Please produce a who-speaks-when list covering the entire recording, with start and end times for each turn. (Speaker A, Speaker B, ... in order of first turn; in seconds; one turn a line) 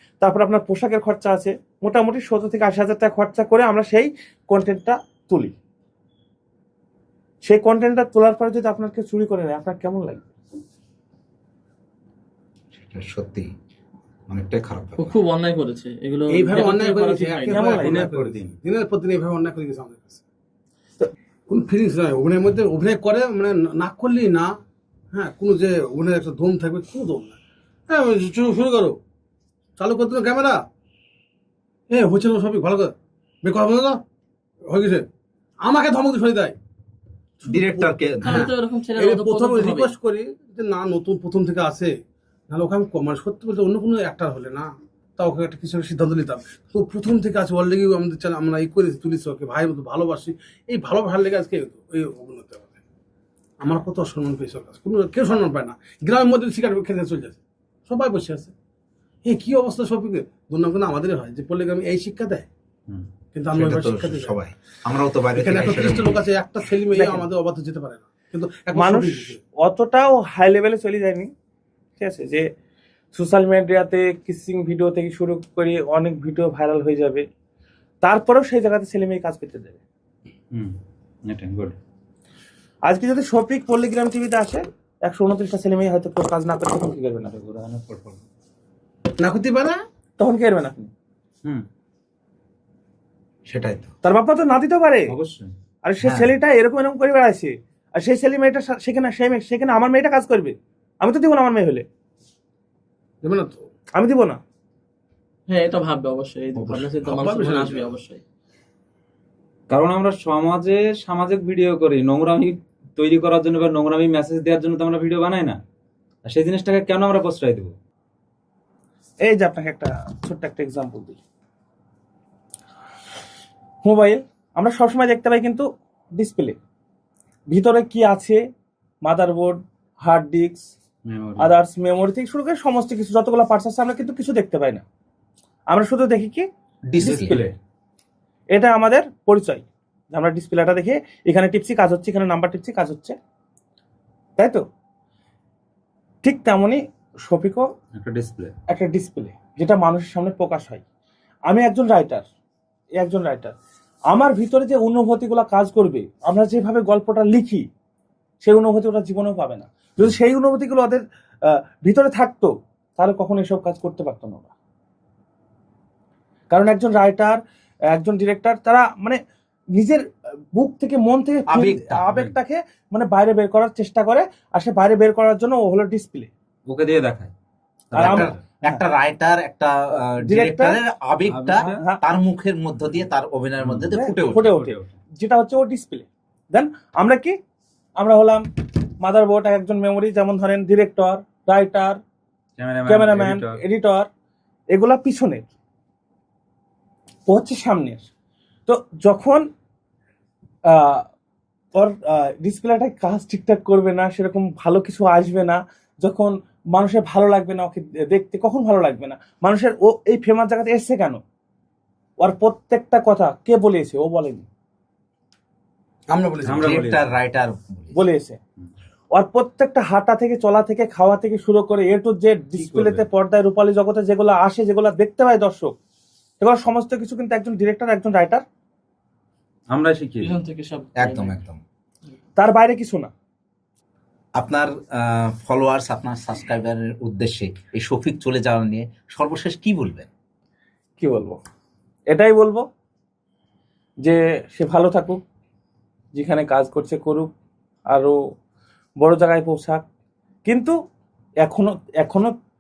Speaker A: 0.2-5.5
Speaker A: 7.4-10.3
Speaker B: 12.8-13.5
Speaker B: 14.3-15.2
Speaker C: 15.0-17.7
Speaker D: 16.3-20.2
Speaker A: 17.5-18.1
Speaker E: 17.7-18.6
Speaker D: 21.5-24.6
Speaker D: 25.1-27.4
Speaker D: 27.9-29.0
Speaker D: 29.8-30.6
Speaker D: 31.9-34.0
Speaker D: 34.7-35.1
Speaker D: 35.6-36.6
Speaker D: 37.4-42.0
Speaker B: 37.5-38.5
Speaker C: 38.2-39.9
Speaker D: 42.5-52.7
Speaker D: 53.6-58.5
Speaker D: 59.2-62.5
Speaker D: 63.3-64.4
Speaker B: 63.5-66.2
Speaker D: 65.3-69.4
Speaker A: 66.9-67.3
Speaker A: 68.7-71.3
Speaker A: 72.0-72.5
Speaker A: 73.1-77.2
Speaker A: 78.0-79.8
Speaker E: 81.3-81.8
Speaker A: 82.9-87.3
Speaker E: 87.3-88.2
Speaker D: 89.2-89.8
Speaker A: 90.2-90.9
Speaker B: 93.5-93.9
Speaker A: 94.0-95.1
Speaker E: 95.1-95.5
Speaker A: 95.8-101.8
Speaker B: 96.0-96.3
Speaker D: 103.2-103.7
Speaker A: 104.0-104.4
Speaker C: 105.5-108.2
Speaker D: 106.6-108.0
Speaker E: 109.7-115.6
Speaker E: 116.2-117.8
Speaker A: 119.2-121.2
Speaker A: 123.8-126.6
Speaker A: 127.5-128.4
Speaker A: 129.0-130.7
Speaker E: 131.1-131.5
Speaker A: 131.4-134.8
Speaker A: 135.7-136.5
Speaker B: 136.9-137.4
Speaker A: 137.0-137.5
Speaker E: 137.0-137.5
Speaker A: 138.5-143.2
Speaker A: 144.4-144.6
Speaker A: 146.2-147.7
Speaker E: 147.9-148.5
Speaker A: 148.7-150.8
Speaker A: 151.5-152.3
Speaker A: 153.0-153.5
Speaker A: 154.1-157.7
Speaker A: 158.4-164.5
Speaker A: 166.5-167.4
Speaker A: 167.9-169.2
Speaker A: 169.7-176.3
Speaker B: 171.5-172.1
Speaker E: 176.7-177.3
Speaker E: 177.9-178.3
Speaker B: 177.9-184.5
Speaker A: 178.0-178.8
Speaker A: 180.2-180.8
Speaker E: 181.3-181.8
Speaker A: 181.6-182.0
Speaker E: 183.6-184.9
Speaker A: 183.9-187.4
Speaker A: 188.0-192.0
Speaker E: 192.6-193.6
Speaker A: 192.9-194.1
Speaker A: 194.7-195.5
Speaker A: 197.3-198.1
Speaker A: 198.7-199.5
Speaker A: 200.7-201.1
Speaker A: 201.8-211.2
Speaker A: 212.2-214.5
Speaker D: 216.1-216.8
Speaker E: 216.4-217.1
Speaker B: 216.5-218.0
Speaker A: 217.9-218.4
Speaker A: 219.1-225.8
Speaker E: 222.5-223.0
Speaker A: 226.4-228.4
Speaker E: 229.7-230.4
Speaker C: 230.2-231.3
Speaker B: 231.0-231.6
Speaker A: 232.4-233.1
Speaker B: 234.4-240.1
Speaker A: 241.0-241.4
Speaker A: 242.1-242.7
Speaker A: 244.0-245.2
Speaker A: 246.1-247.3
Speaker A: 247.9-248.2
Speaker A: 249.0-249.8
Speaker A: 250.4-250.8
Speaker A: 251.4-252.3